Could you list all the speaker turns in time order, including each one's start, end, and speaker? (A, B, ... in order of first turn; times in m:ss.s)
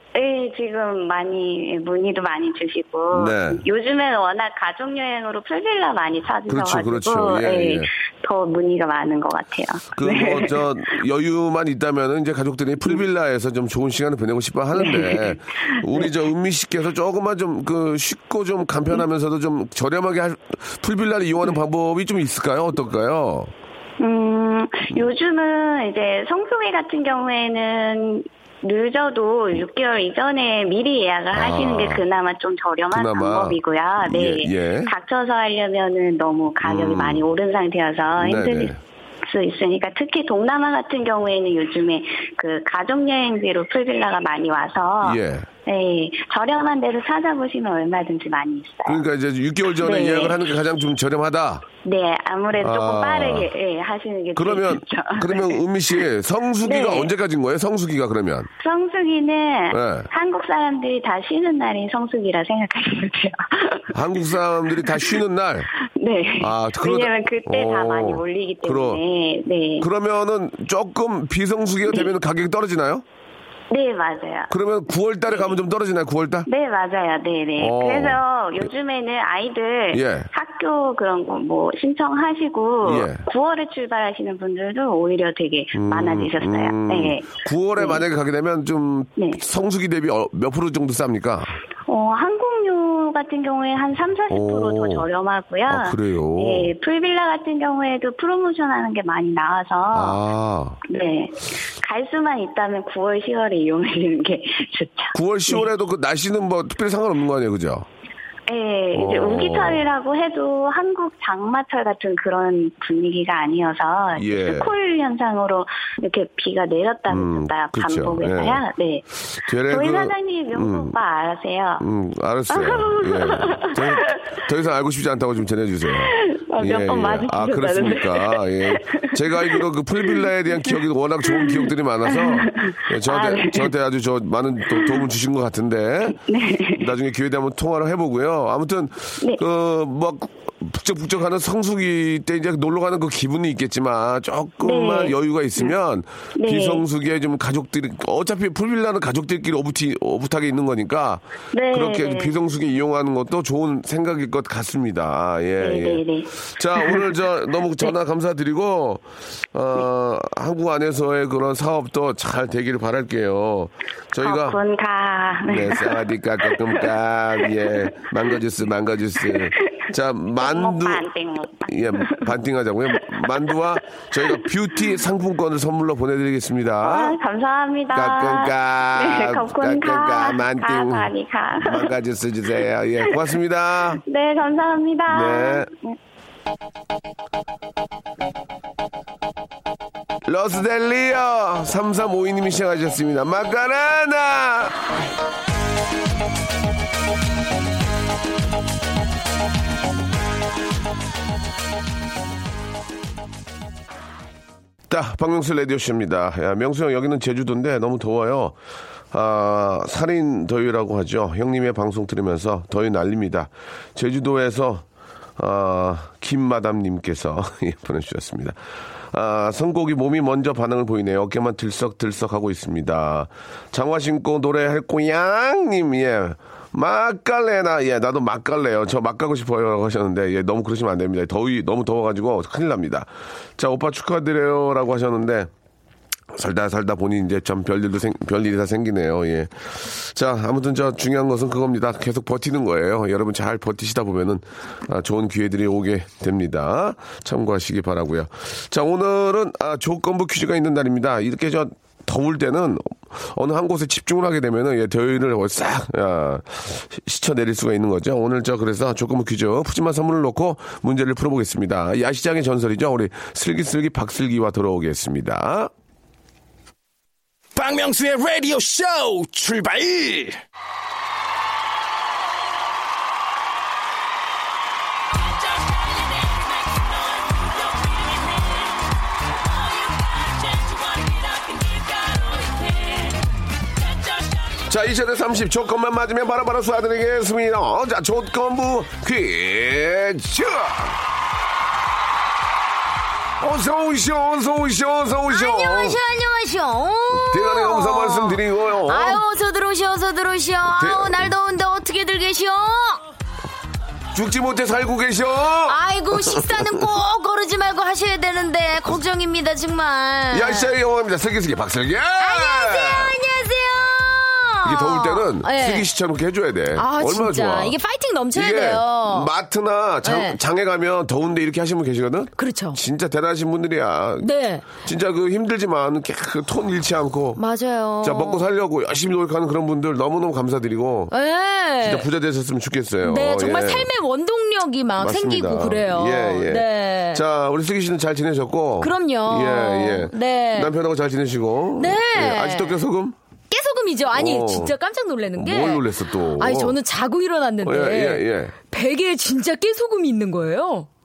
0:00.1-0:10.6 A
0:03.1-0:03.6 B
0:06.5-0:07.9 B
0:10.0-0:23.5 B
0:14.8-0:16.1 A
0:24.0-0:38.7 A
0:31.3-0:32.0 B
0:32.9-0:34.9 B
0:36.6-0:37.2 B
0:38.2-0:38.8 B
0:39.2-0:49.0 A
0:45.0-0:45.5 B
0:48.9-0:51.7 B
0:49.9-0:50.3 A
0:51.8-0:56.0 A
0:52.5-0:53.5 B
0:54.4-0:58.5 B
0:56.6-0:57.1 A
0:58.6-1:05.2 A
0:59.7-1:00.1 B
1:03.9-1:05.7 B
1:05.9-1:09.9 A
1:06.4-1:09.0 B
1:09.8-1:13.0 B
1:13.7-1:14.5 A
1:14.5-1:16.5 B
1:16.5-1:28.0 A
1:17.6-1:18.2 B
1:19.9-1:20.3 B
1:22.8-1:23.2 B
1:25.7-1:31.6 B
1:31.9-1:40.2 A
1:34.3-1:35.1 B
1:35.7-1:36.7 B
1:39.9-1:40.8 B
1:40.9-1:45.6 A
1:45.1-1:47.9 B
1:48.5-1:59.1 A
1:48.9-1:49.8 B
1:54.2-1:54.7 B
1:57.1-1:58.6 B
1:59.3-2:01.0 B
1:59.7-2:01.8 A
2:01.8-2:16.2 B
2:02.5-2:04.2 A
2:06.0-2:10.2 A
2:11.3-2:13.7 A
2:16.2-2:16.9 A
2:16.7-2:44.6 B
2:24.6-2:25.7 A
2:26.4-2:26.8 A
2:31.5-2:32.4 A
2:35.6-2:37.1 A
2:44.2-2:46.9 A
2:45.4-2:51.1 B
2:47.5-2:47.8 A
2:49.3-2:49.5 A
2:50.4-2:52.4 A
2:51.6-2:57.2 B
2:52.9-2:53.6 A
2:56.8-3:01.9 A
2:57.9-3:04.0 B
3:04.0-3:06.0 A
3:05.1-3:05.7 B
3:10.3-3:14.8 B
3:24.9-3:28.6 B
3:29.1-3:34.8 B
3:35.4-3:38.6 B
3:39.1-3:55.5 B
3:56.3-4:25.7 B
4:27.6-4:30.4 C
4:44.6-4:51.0 B
4:53.4-4:56.0 B
4:55.3-5:03.0 D
4:57.1-4:59.2 B
5:00.8-5:01.3 B
5:04.1-5:06.8 B
5:05.7-5:10.7 D
5:10.3-5:13.2 B
5:12.2-5:15.9 D
5:14.6-5:17.8 B
5:16.8-5:19.3 D
5:18.3-5:27.4 B
5:20.0-5:20.4 D
5:22.4-5:22.8 D
5:24.2-5:24.7 D
5:27.4-5:28.4 D
5:28.0-5:31.1 B
5:31.1-5:32.1 D
5:31.8-5:33.9 B
5:33.0-5:37.2 D
5:35.0-5:43.2 B
5:38.8-5:40.7 D
5:41.8-5:42.8 D
5:43.5-5:45.8 D
5:44.1-5:44.7 B
5:45.4-5:46.8 B
5:46.4-5:50.9 D
5:47.6-5:48.5 B